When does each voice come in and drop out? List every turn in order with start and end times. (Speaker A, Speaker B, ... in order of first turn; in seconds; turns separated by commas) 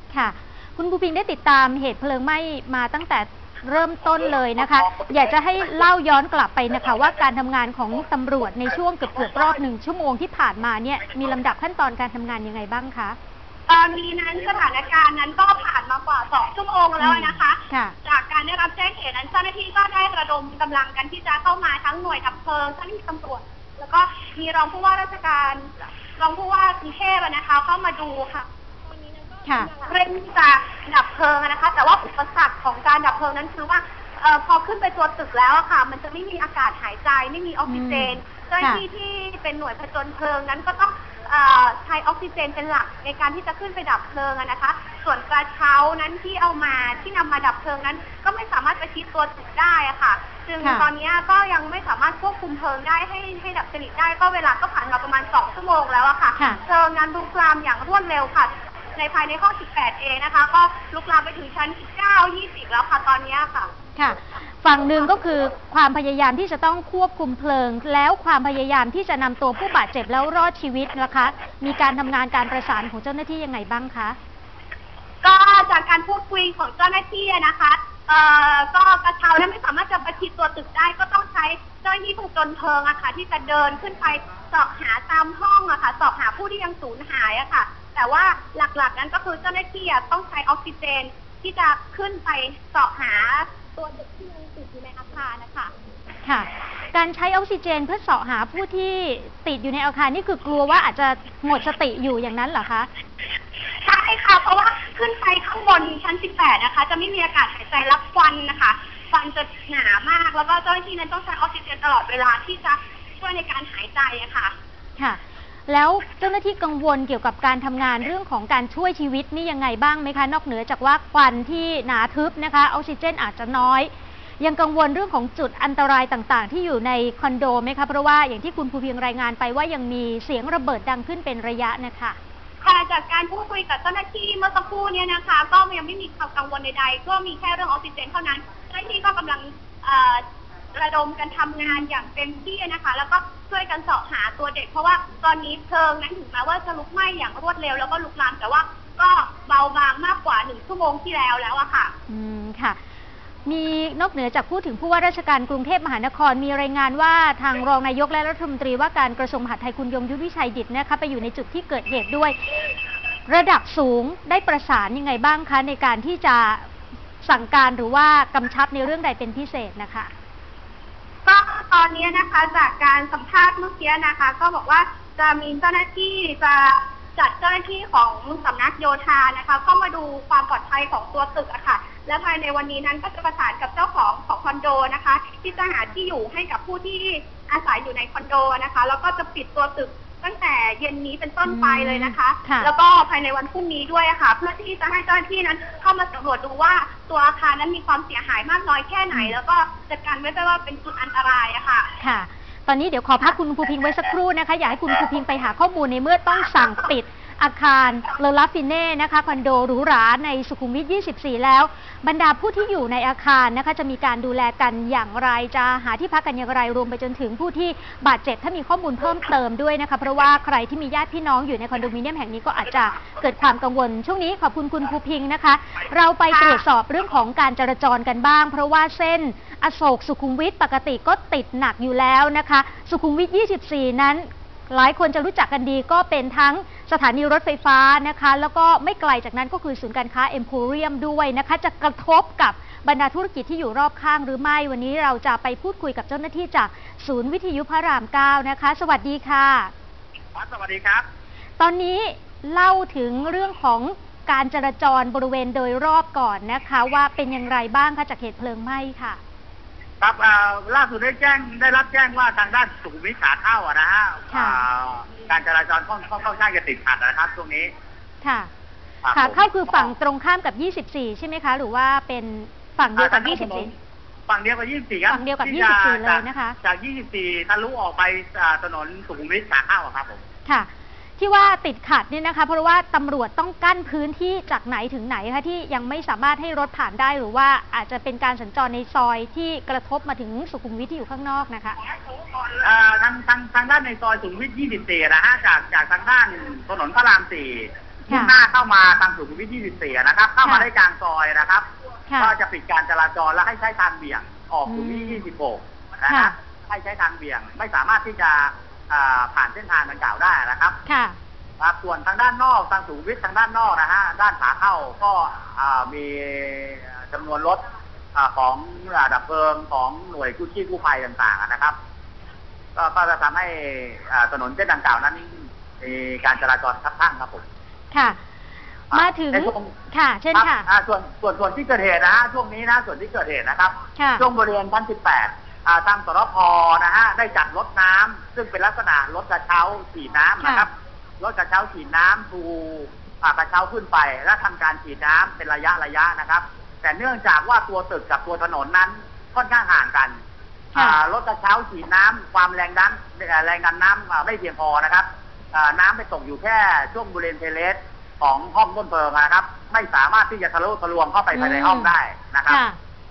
Speaker A: 0.1-13.2, Speaker B: 13.7-63.7, Speaker A: 17.0-17.9, Speaker A: 37.7-38.8, Speaker A: 50.6-50.9, Speaker A: 64.0-74.2, Speaker B: 75.2-95.7, Speaker A: 96.2-102.9, Speaker B: 103.8-114.5, Speaker A: 115.0-132.2, Speaker B: 132.6-140.2, Speaker B: 140.7-151.9, Speaker A: 152.1-152.8, Speaker A: 153.4-162.3, Speaker A: 163.3-166.7, Speaker A: 167.2-170.1, Speaker B: 171.2-201.9, Speaker A: 191.4-192.7, Speaker A: 202.0-249.7, Speaker C: 250.3-251.0, Speaker A: 251.6-259.2, Speaker C: 260.0-267.7, Speaker A: 264.3-264.6, Speaker A: 268.2-268.5, Speaker C: 269.0-269.9, Speaker A: 269.1-273.7, Speaker C: 273.0-273.7, Speaker C: 274.3-280.2, Speaker A: 275.1-276.6, Speaker A: 280.4-291.8, Speaker C: 292.6-301.7, Speaker A: 298.1-298.3, Speaker A: 302.1-302.3, Speaker C: 302.2-310.8, Speaker A: 304.7-305.2, Speaker A: 306.1-306.3, Speaker A: 310.9-311.2, Speaker C: 311.6-317.6, Speaker C: 318.1-321.8, Speaker C: 322.8-327.4, Speaker A: 327.9-328.2, Speaker C: 328.9-329.7, Speaker A: 328.9-330.7, Speaker C: 330.3-350.2, Speaker A: 334.0-334.2, Speaker A: 340.4-340.7, Speaker A: 350.7-351.0, Speaker C: 350.7-362.6, Speaker A: 361.3-361.9, Speaker A: 362.5-362.8